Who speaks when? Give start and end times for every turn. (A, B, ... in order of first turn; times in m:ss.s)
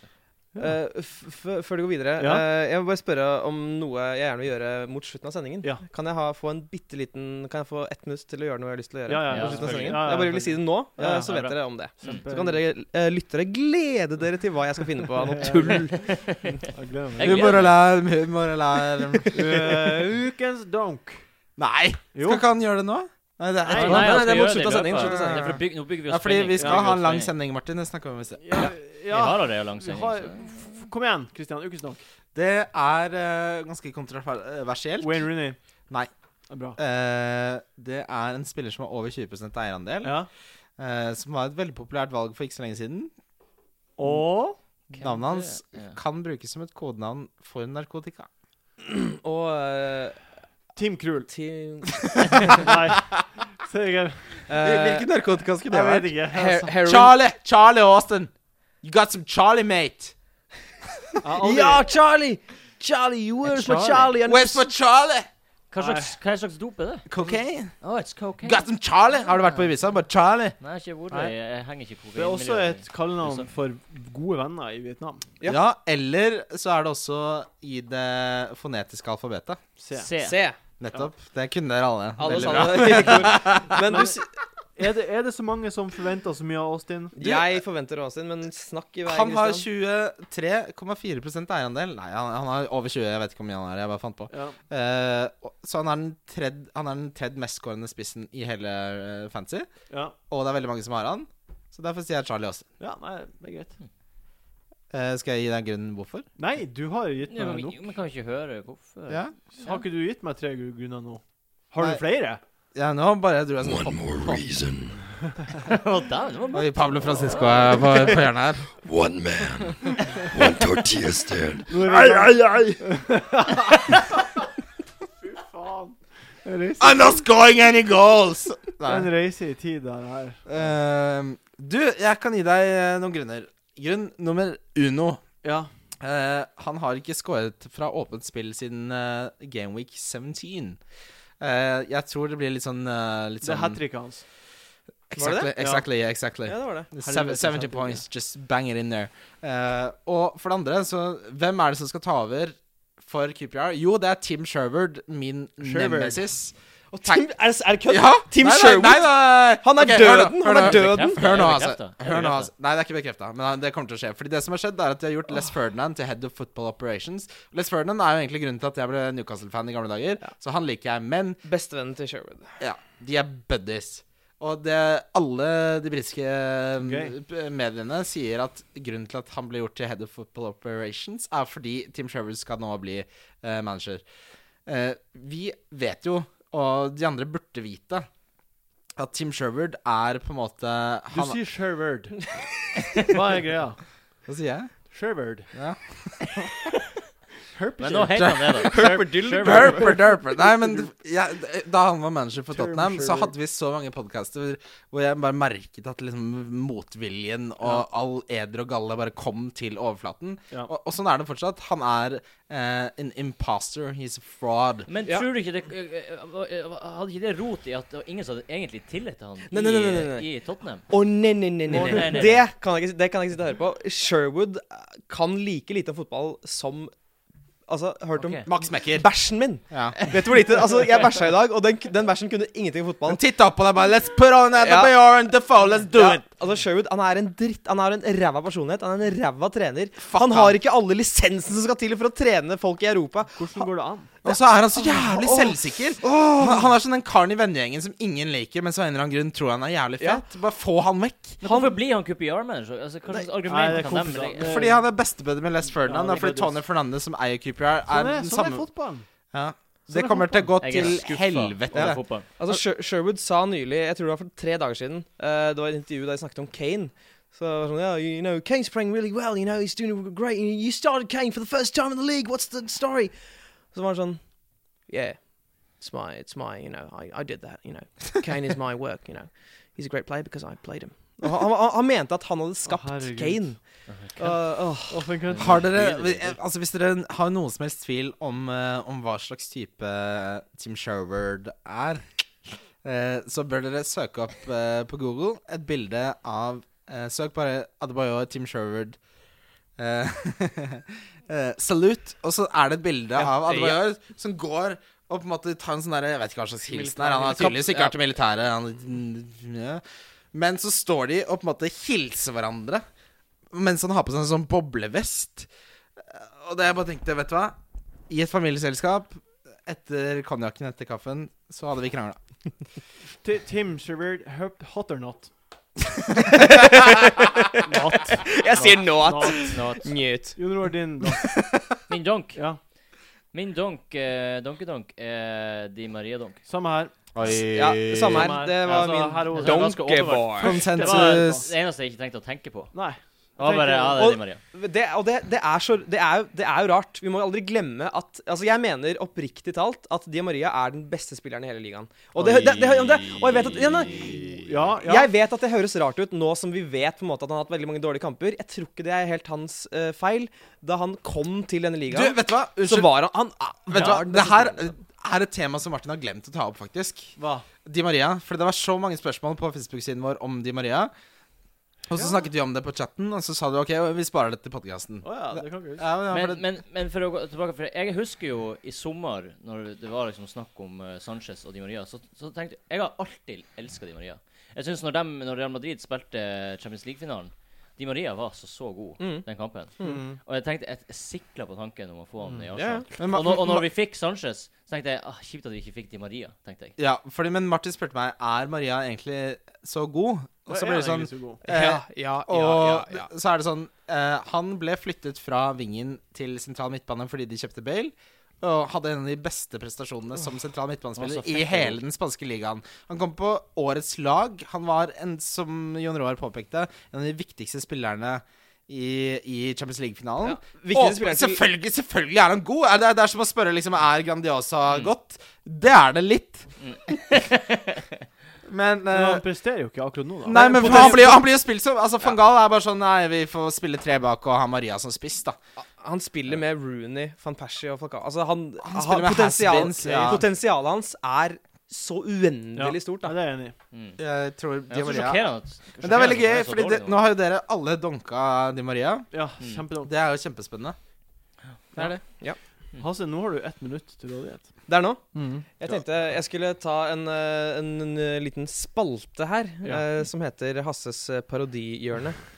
0:00.6-0:16.2 A
0:02.2-0:02.5 B
0:09.1-0:12.6 B
0:09.3-0:10.0 C
0:15.3-0:17.7 B
0:16.0-0:16.4 C
0:17.2-0:17.8 C
0:17.2-0:19.7 D
0:19.1-0:19.7 A
0:19.3-0:21.3 B
0:21.6-0:28.7 D
0:22.1-0:22.4 B
0:23.7-0:24.1 B
0:23.7-0:27.3 C
0:23.7-0:25.5 A
0:26.6-0:26.9 B
0:28.4-0:32.0 B
0:28.6-0:30.4 C
0:32.3-0:35.3 D
0:35.0-0:35.6 B
0:36.5-0:36.8 B
0:36.8-0:40.2 D
0:40.0-0:40.3 B
0:40.8-0:43.1 D
0:44.0-0:44.6 B
0:44.9-0:46.0 C
0:45.0-0:48.3 D
0:48.9-0:50.3 A
0:50.8-0:51.3 B
0:51.3-0:52.6 A
0:52.6-0:54.5 B
0:54.5-0:55.1 A
0:54.6-0:56.2 D
0:55.7-0:56.7 B
0:56.3-0:57.2 A
0:56.7-1:00.2 D
1:01.2-1:01.9 B
1:01.4-1:04.7 A
1:03.5-1:04.2 B
1:04.2-1:05.3 D
1:05.7-1:07.1 C
1:05.8-1:06.2 B
1:07.1-1:07.8 D
1:07.8-1:08.7 C
1:08.4-1:10.6 D
1:10.6-1:13.5 C
1:11.1-1:11.4 B
1:12.2-1:15.3 B
1:15.5-1:19.6 D
1:19.8-1:20.1 B
1:20.0-1:20.4 C
1:20.2-1:20.6 A
1:20.8-1:23.8 D
1:22.2-1:24.3 A
1:22.2-1:24.2 B
1:24.8-1:27.2 B
1:27.2-1:29.7 A
1:27.2-1:27.6 D
1:29.0-1:39.7 D
1:34.3-1:34.6 B
1:39.9-1:40.2 B
1:40.3-1:42.7 D
1:42.8-1:43.8 B
1:44.9-1:46.3 D
1:46.4-1:47.9 B
1:47.3-1:49.8 C
1:49.1-1:49.4 D
1:49.5-1:52.4 B
1:52.7-1:54.4 D
1:53.6-1:55.0 E
1:55.7-1:58.2 C
1:56.5-1:58.7 D
1:58.8-2:01.7 E
2:01.7-2:04.4 B
2:01.9-2:02.8 D
2:05.2-2:07.0 B
2:06.8-2:09.1 D
2:08.8-2:10.4 B
2:10.5-2:15.2 D
2:15.4-2:15.7 B
2:16.0-2:20.8 D
2:21.4-2:23.8 D
2:23.4-2:24.2 B
2:25.1-2:37.2 D
2:25.2-2:25.5 A
2:25.6-2:25.8 B
2:26.4-2:26.9 A
2:27.0-2:28.0 B
2:35.6-2:36.2 B
2:36.9-2:41.5 A
2:37.9-2:51.4 D
2:40.5-2:42.5 C
2:51.4-2:52.6 A
2:52.6-3:04.0 D
2:56.8-2:57.1 B
3:04.7-3:08.1 D
3:09.0-3:11.4 D
3:11.1-3:12.2 B
3:13.0-3:13.8 B
3:14.3-3:14.8 D
3:14.9-3:15.5 B
3:15.5-3:16.4 D
3:17.5-3:19.2 B
3:17.8-3:20.0 C
3:18.2-3:34.9 D
3:18.6-3:20.2 A
3:22.5-3:23.3 B
3:34.9-3:41.0 C
3:39.5-3:40.3 A
3:40.8-3:46.9 A
3:41.7-3:42.4 C
3:47.7-3:53.2 A
3:48.2-3:48.5 C
3:48.5-3:49.1 D
3:49.7-3:50.0 D
3:53.1-3:56.2 D
3:54.6-3:55.2 A
3:55.9-4:03.7 A
4:00.0-4:00.6 D
4:03.4-4:04.1 B
4:04.2-4:11.4 D
4:04.2-4:06.7 A
4:10.0-4:10.2 A
4:11.4-4:11.7 A
4:11.4-4:14.7 C
4:13.4-4:14.8 B
4:14.4-4:18.7 D
4:15.8-4:16.6 B
4:17.9-4:19.1 B
4:19.3-4:22.0 D
4:19.9-4:21.0 A
4:20.6-4:22.3 C
4:21.7-4:43.6 A
4:42.7-4:43.6 B
4:43.9-4:44.2 C
4:44.2-4:45.0 A
4:44.8-4:45.6 B
4:45.3-4:46.4 C
4:45.3-4:52.1 D
4:52.8-4:59.0 D
4:59.8-5:09.8 D
5:03.2-5:03.8 A
5:06.7-5:07.9 B
5:07.3-5:07.9 A
5:10.3-5:12.8 D
5:13.5-5:15.5 D
5:16.0-5:17.6 D
5:18.1-5:22.2 D
5:23.2-5:25.3 B
5:26.2-5:27.6 A
5:27.6-5:28.4 B
5:28.3-5:30.4 A
5:28.5-5:29.9 C
5:28.9-5:29.6 B
5:30.4-5:31.2 B
5:31.0-5:31.6 A
5:31.9-5:32.4 C
5:33.3-5:36.4 C
5:36.5-5:36.9 B
5:37.2-5:38.4 D
5:37.2-5:40.6 A
5:38.0-5:41.5 B
5:39.3-5:39.8 C
5:40.4-5:41.5 D
5:40.8-5:42.7 C
5:42.7-5:44.1 B
5:43.4-5:44.4 C
5:43.9-6:04.7 A
5:52.2-5:52.6 B
5:53.9-5:55.1 B
6:01.9-6:03.0 D
6:03.7-6:10.9 D
6:07.2-6:07.5 B
6:11.9-6:16.4 D
6:11.9-6:12.2 B
6:15.0-6:15.8 B
6:16.1-6:36.8 C
6:29.0-6:29.2 A
6:29.8-6:30.2 B
6:32.6-6:32.9 A
6:33.0-6:33.7 D
6:36.8-7:06.5 D
6:40.5-6:41.4 B
6:41.4-6:43.1 A
6:51.0-6:51.8 C
7:00.2-7:01.4 A
7:06.6-7:07.9 C
7:08.5-7:09.2 D
7:08.9-7:11.2 B
7:10.2-7:15.4 D
7:10.3-7:11.2 A
7:15.8-7:23.1 A
7:18.6-7:20.2 D
7:19.8-7:20.2 B
7:22.6-7:23.6 B
7:23.7-7:24.0 C
7:24.0-7:29.1 D
7:24.7-7:27.1 C
7:29.1-7:29.9 B
7:29.8-7:30.8 D
7:31.8-7:32.0 D
7:32.7-7:34.6 B
7:34.7-7:42.2 A
7:35.1-7:35.8 B